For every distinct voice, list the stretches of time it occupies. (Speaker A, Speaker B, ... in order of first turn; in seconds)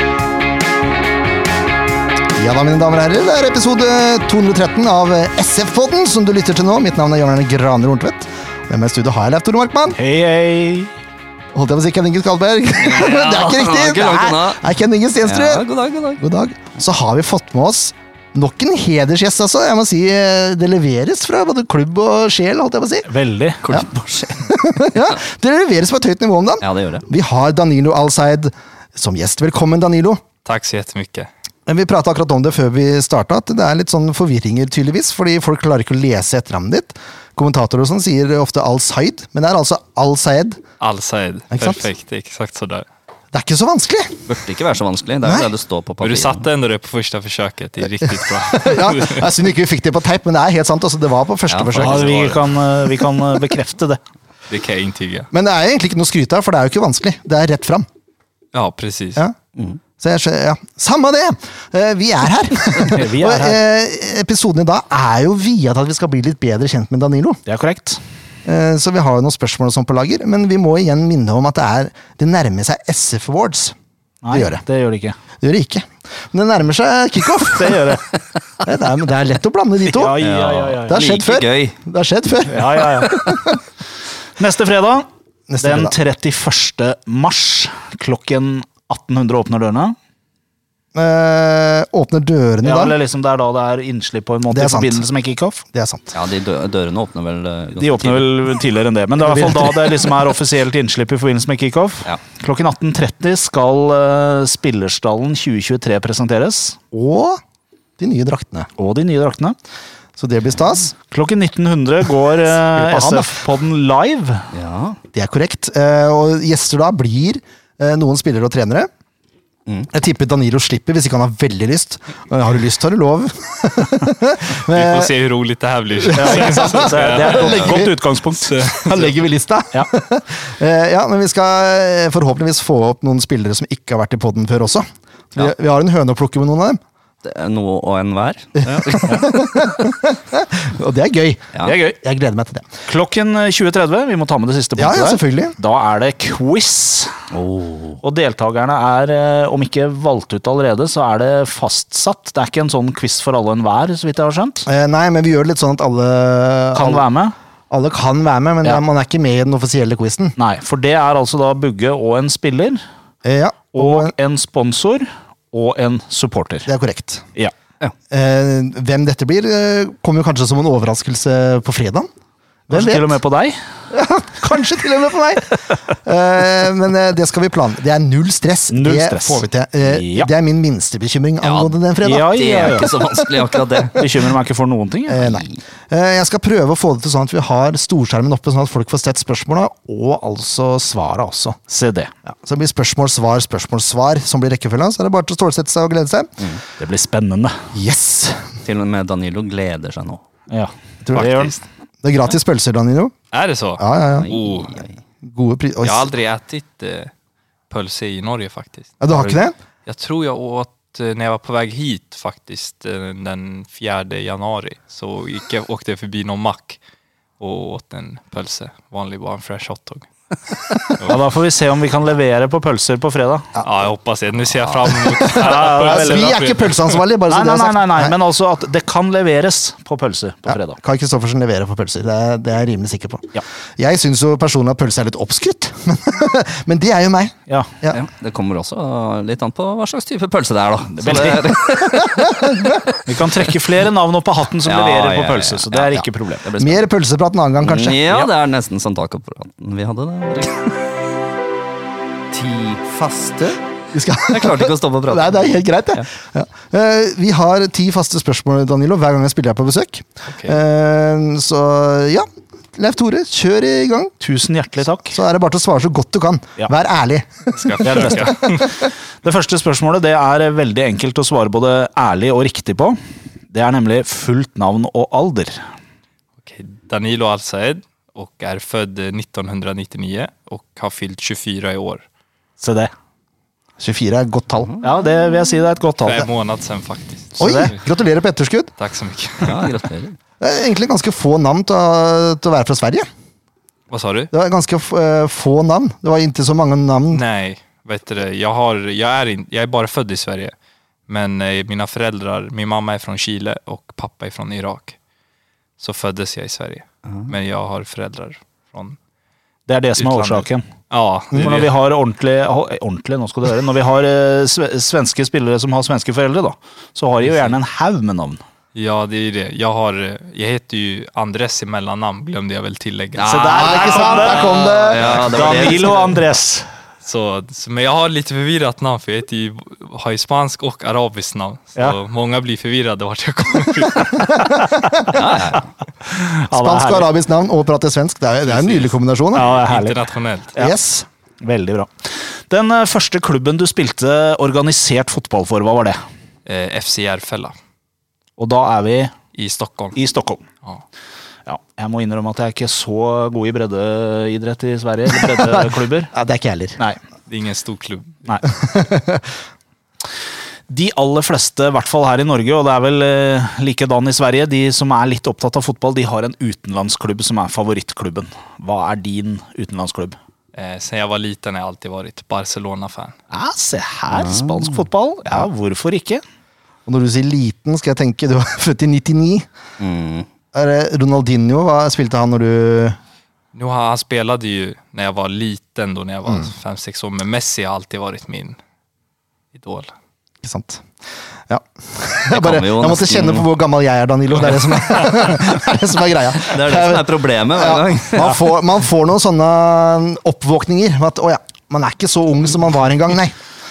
Speaker A: 2.4-10.0, 11.5-23.1, 24.4-30.2, 31.7-40.6, 41.5-41.8, 43.3-44.3, 45.2-45.5, 48.5-52.4, 55.3-57.9, 60.0-67.4, 68.5-73.8, 74.3-74.6, 75.4-78.0, 78.6-80.2, 80.9-83.6, 85.5-86.0, 91.0-93.0, 94.5-95.1, 95.7-96.2, 99.2-99.8, 106.9-107.4, 108.0-108.7, 110.2-111.0, 112.5-113.5, 115.1-118.9, 119.9-125.1, 126.0-128.0, 128.7-136.8, 138.6-142.6, 144.8-145.6, 154.7-157.0, 157.7-160.4, 163.2-164.1, 166.7-167.3, 168.1-172.1, 172.7-173.2, 173.9-183.4, 185.1-191.6, 192.3-196.6, 197.7-198.5, 201.1-201.5, 202.0-203.1, 203.8-204.3, 205.2-206.1, 209.0-209.6, 226.0-228.2, 230.5-238.0, 241.8-242.8, 246.6-248.0, 252.5-264.1, 265.1-268.7, 283.8-284.7, 287.4-288.7, 290.4-293.1, 294.3-297.2, 323.6-325.2, 334.3-335.2, 336.5-339.5, 340.6-341.1, 355.2-356.8, 358.4-359.3, 376.9-379.5, 380.5-383.0, 390.4-390.9, 391.5-403.4
Speaker B: 9.9-10.9, 23.1-23.6, 51.8-54.0, 62.9-63.6, 67.5-68.0, 74.2-75.2, 77.5-78.0, 79.9-81.0, 82.5-83.3, 84.4-85.1, 85.6-90.0, 92.6-95.6, 97.8-106.8, 108.8-109.6, 111.0-114.5, 126.1-128.6, 141.6-142.0, 142.9-147.2, 148.0-154.7, 156.8-157.3, 160.4-162.8, 163.8-166.7, 172.7-173.6, 178.7-180.3, 182.0-182.9, 184.0-185.3, 191.7-192.1, 196.8-197.7, 200.5-201.6, 221.1-223.5, 225.3-226.7, 227.3-230.8, 241.0-241.5, 243.1-246.5, 264.2-265.2, 267.8-273.0, 273.5-275.6, 282.6-282.9, 284.8-286.3, 287.4-287.8, 309.7-310.6, 311.3-318.4, 323.2-326.7, 336.1-337.1, 339.4-340.8, 341.4-346.0, 348.4-349.1, 349.9-350.4, 351.5-356.1, 360.7-370.2, 373.3-376.2
Speaker C: 12.8-14.6, 15.2-16.2, 23.6-25.1, 26.6-27.1, 44.3-46.5, 51.5-52.2, 80.2-81.8, 96.1-98.3, 114.5-115.0, 137.2-139.3, 147.3-148.0, 181.4-181.8, 182.3-184.0, 185.2-185.6, 198.6-200.2, 204.2-205.0, 237.9-242.9, 244.6-246.8, 247.6-250.8, 254.3-256.1, 289.4-290.2, 324.9-326.1, 335.1-335.7, 374.1-374.9, 379.8-380.3, 392.3-393.5, 396.4-398.4
Speaker D: 30.4-31.3, 40.8-42.9, 46.0-49.3, 54.5-55.3, 58.5-59.2, 124.7-129.2, 201.2-201.6, 203.3-204.8, 205.8-207.1, 207.7-216.8, 217.4-220.1, 220.9-221.2, 223.6-227.0, 260.3-260.6, 267.6-268.7, 276.4-282.1, 286.0-287.8, 288.8-289.8, 293.9-294.3, 297.1-300.6, 301.1-305.0, 305.8-309.0, 310.0-311.7, 318.7-326.2, 327.0-334.6, 338.5-340.6, 346.5-347.6, 349.3-350.0, 357.3-358.4, 370.5-373.2, 383.5-388.6, 389.5-389.9, 394.4-395.1